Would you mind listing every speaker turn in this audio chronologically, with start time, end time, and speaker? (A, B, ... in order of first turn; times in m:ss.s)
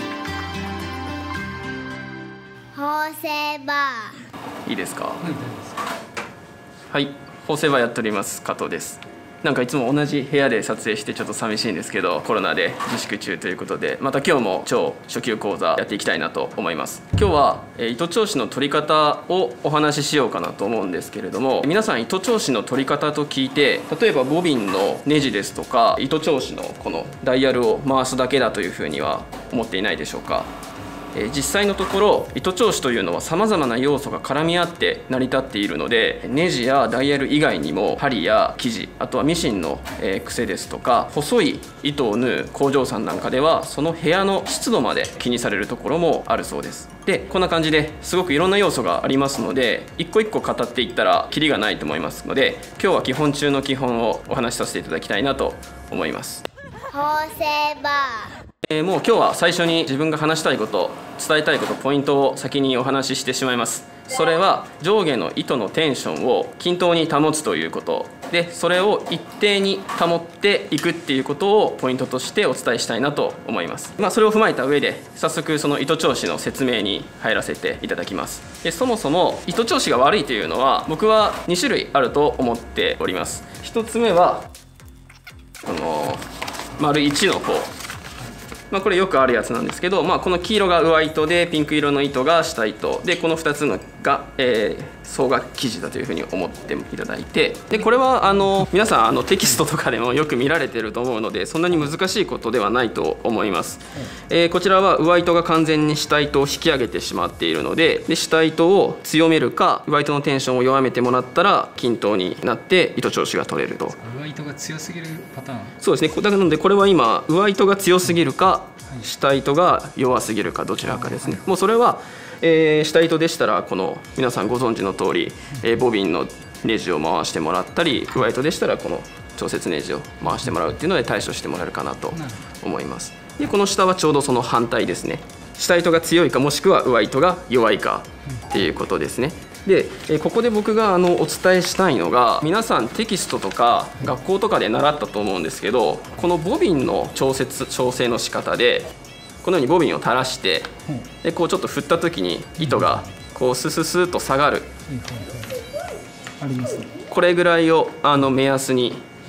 0:02.7-0:04.3 A
0:04.6-0:05.6 B
0:06.9-0:30.5 B
0:31.1-0:56.4 B
0:56.9-0:58.4 A
0:58.6-1:24.5 B
1:25.6-1:27.7 B
1:28.7-1:54.0 B
1:54.0-1:55.8 C
1:55.8-2:34.7 B
2:34.9-2:35.6 C
2:36.4-2:36.9 C
2:37.0-2:39.1 B